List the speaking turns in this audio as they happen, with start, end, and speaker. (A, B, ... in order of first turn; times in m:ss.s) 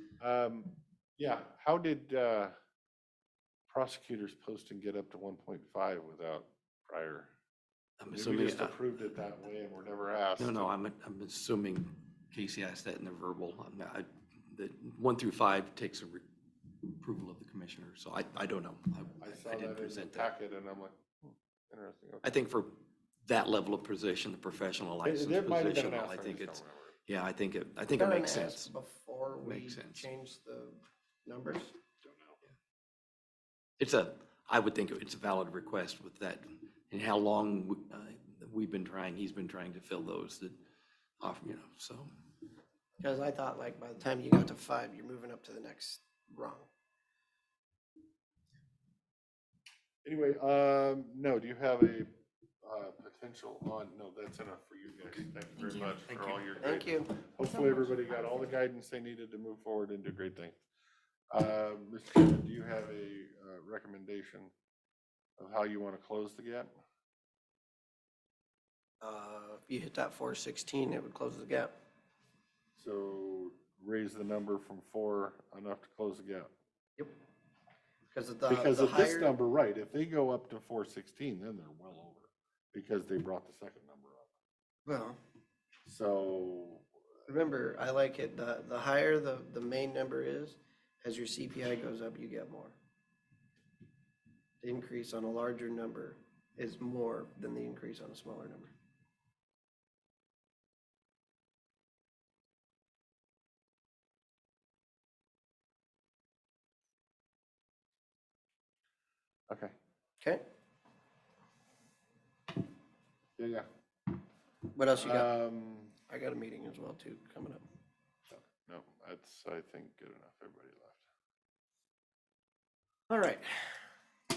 0:00.2-0:02.5 A
0:03.7-0:07.3 A
0:08.0-0:08.8 B
0:08.1-0:10.7 A
0:10.4-0:16.3 B
0:16.8-0:20.3 B
0:19.2-0:22.3 A
0:22.2-0:28.7 B
0:25.0-0:26.9 A
0:27.9-0:31.8 C
0:29.4-0:30.1 B
0:32.0-0:32.3 A
0:33.8-0:40.6 B
0:41.2-0:42.1 B
0:43.0-0:46.7 C
0:50.0-0:52.1 A
0:52.6-1:00.6 A
0:56.0-0:56.6 B
0:56.6-0:57.2 C
1:01.3-1:04.5 A
1:05.4-1:06.7 A
1:09.0-1:11.7 C
1:12.8-1:16.5 A
1:18.1-1:19.3 C
1:18.5-1:24.3 A
1:24.8-1:25.2 C
1:25.8-1:26.8 A
1:27.3-1:32.7 C
1:34.6-1:38.7 C
1:49.5-1:49.7 A
1:53.4-1:53.6 A
1:54.7-1:55.3 C
1:55.0-1:55.9 A
1:56.1-1:57.6 C
1:58.3-2:01.0 A
2:03.1-2:03.7 C